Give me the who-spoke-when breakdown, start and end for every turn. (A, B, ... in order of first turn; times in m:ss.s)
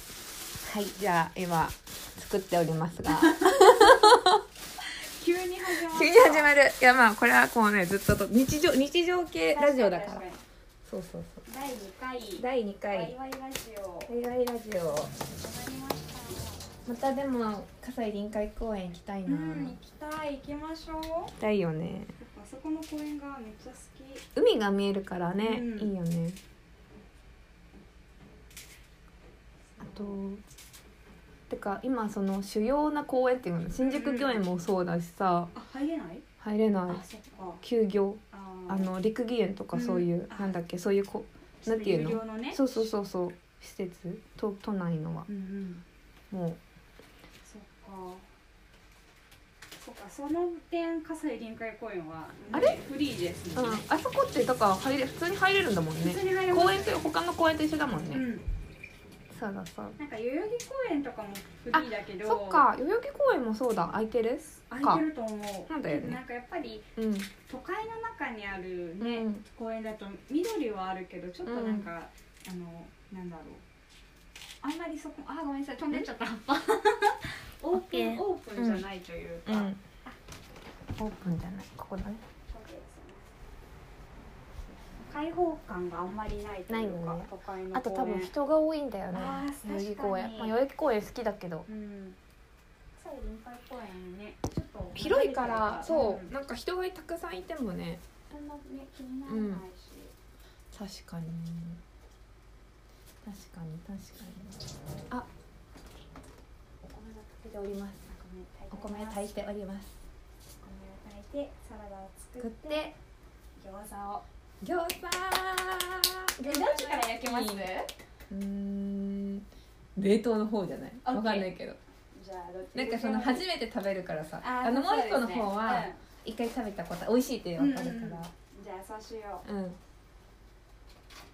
0:00.6-0:04.4 A
0:03.3-0:03.9 B
0:05.2-0:06.5 B
0:05.8-0:10.2 A
0:09.5-0:10.4 B
0:10.9-0:11.4 A
0:11.4-0:14.1 B
0:12.4-0:13.1 A
0:14.1-0:15.1 A
0:15.3-0:16.6 B
0:16.8-0:19.8 A
0:19.2-0:21.3 B
0:21.4-0:22.1 A
0:22.2-0:24.2 B
0:24.4-0:26.4 A
0:25.4-0:25.9 B
0:29.7-0:30.2 B
0:29.8-0:30.4 A
0:31.5-0:35.5 A
0:33.8-0:34.4 B
0:35.5-0:36.2 B
0:36.4-0:37.0 A
0:36.9-0:37.6 B
0:37.6-0:45.3 A
0:38.3-0:38.9 B
0:39.7-0:40.6 B
0:41.6-0:42.9 B
0:45.3-0:45.8 B
0:46.3-0:46.6 A
0:47.4-0:48.2 B
0:49.8-0:53.8 B
0:52.5-0:52.8 A
0:53.5-0:58.2 A
0:56.0-0:57.1 B
0:58.1-0:58.4 B
0:59.3-1:00.0 A
1:00.0-1:02.7 B
1:01.7-1:05.0 A
1:04.7-1:06.9 B
1:05.7-1:06.2 A
1:07.0-1:07.3 A
1:07.5-1:13.6 B
1:09.0-1:09.4 A
1:11.4-1:11.9 A
1:14.6-1:20.2 B
1:17.7-1:18.8 A
1:19.4-1:19.8 A
1:21.0-1:22.2 A
1:22.5-1:23.3 B
1:25.0-1:28.3 B
1:26.7-1:31.6 A
1:29.1-1:30.6 B
1:31.6-1:32.2 B
1:33.0-1:36.3 B
1:34.9-1:38.6 A
1:38.6-1:40.1 B
1:39.3-1:39.6 A
1:40.7-1:41.8 A
1:43.2-1:45.3 A
1:46.8-1:48.1 A
1:48.0-1:49.3 B
1:48.7-1:50.0 A
1:50.6-1:52.9 B
1:52.4-1:52.9 A
1:53.6-1:54.2 B
1:54.6-1:57.7 A
1:56.4-1:57.9 B
1:58.3-2:01.8 A
2:01.0-2:01.5 B
2:02.1-2:03.4 B
2:02.7-2:08.3 A
2:04.4-2:06.0 B
2:07.6-2:09.4 B
2:09.4-2:09.8 A